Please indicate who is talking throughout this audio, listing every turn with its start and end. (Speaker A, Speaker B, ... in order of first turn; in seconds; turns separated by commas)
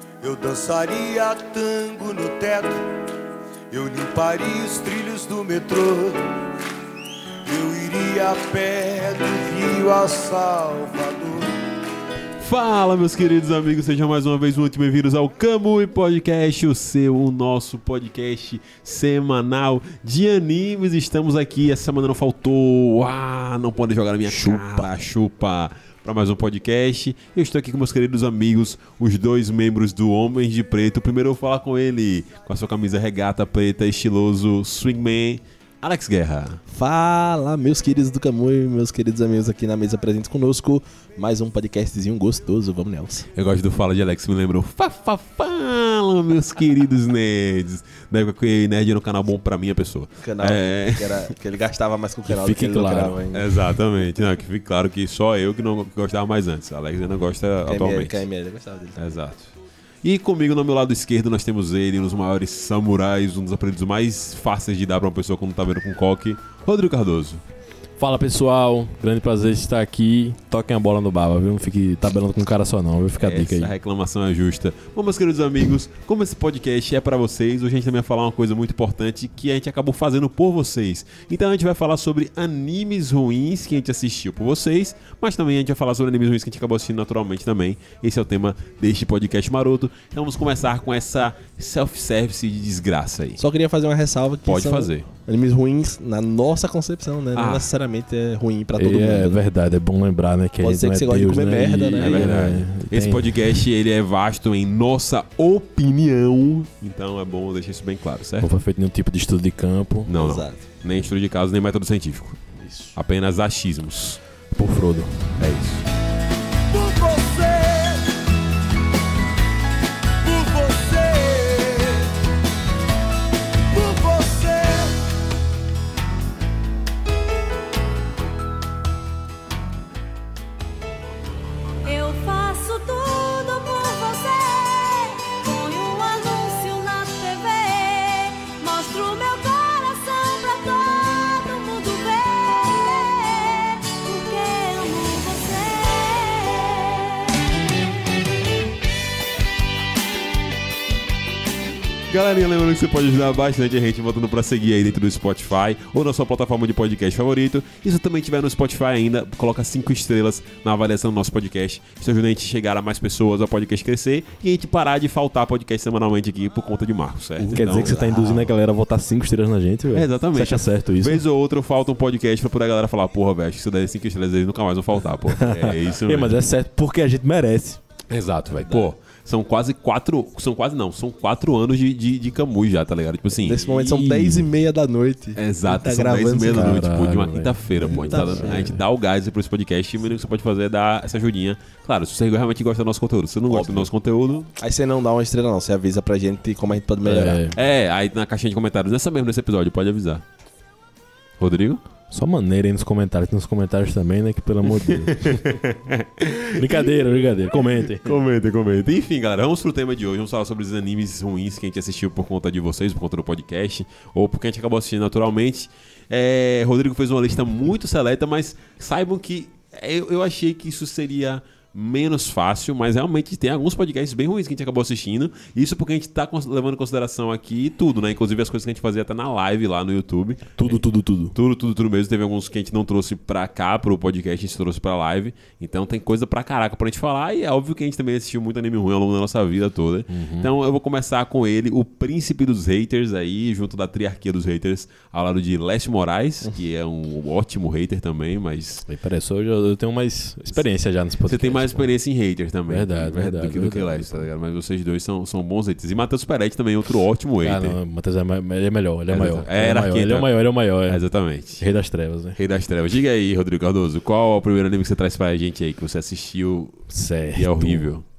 Speaker A: 0.2-2.9, Speaker A: 3.7-6.3, Speaker A: 7.5-11.6, Speaker B: 12.4-36.6, Speaker C: 24.4-24.9, Speaker D: 36.7-43.3, Speaker B: 43.3-51.3, Speaker D: 50.2-53.5, Speaker C: 52.3-53.2, Speaker B: 53.3-58.2, Speaker D: 57.6-59.1, Speaker B: 59.0-59.5, Speaker B: 60.0-67.4, Speaker C: 68.0-73.7, Speaker B: 73.2-93.4, Speaker D: 93.4-99.4, Speaker B: 94.5-95.0, Speaker B: 97.3-97.7, Speaker C: 98.8-103.4, Speaker D: 100.6-102.3, Speaker B: 102.0-108.5, Speaker C: 108.4-110.1, Speaker B: 110.1-112.4, Speaker D: 110.2-110.6, Speaker C: 112.6-112.9, Speaker B: 112.9-114.2, Speaker C: 114.5-115.4, Speaker B: 115.4-115.8, Speaker A: 116.7-118.1, Speaker A: 120.2-122.1, Speaker A: 123.7-125.0, Speaker E: 131.8-147.2, Speaker B: 152.1-168.0, Speaker D: 167.4-168.4, Speaker C: 167.4-171.2, Speaker B: 169.9-176.4, Speaker C: 175.3-177.8, Speaker B: 178.1-183.8, Speaker D: 178.6-178.9, Speaker D: 183.4-186.8, Speaker C: 183.8-184.4, Speaker B: 185.3-194.5, Speaker C: 186.5-188.8, Speaker D: 187.9-188.7, Speaker D: 193.5-193.9, Speaker D: 194.6-197.4, Speaker C: 197.0-197.6, Speaker B: 197.5-200.2, Speaker B: 201.4-201.8, Speaker C: 202.1-205.5, Speaker B: 204.8-206.8, Speaker C: 206.5-208.1, Speaker B: 207.9-248.8, Speaker C: 230.6-231.3, Speaker C: 240.1-240.5, Speaker C: 248.9-251.9, Speaker B: 251.2-257.8, Speaker C: 252.7-254.2, Speaker C: 257.4-261.0, Speaker B: 259.1-261.6, Speaker C: 261.6-262.4, Speaker B: 262.4-268.0, Speaker C: 266.9-267.9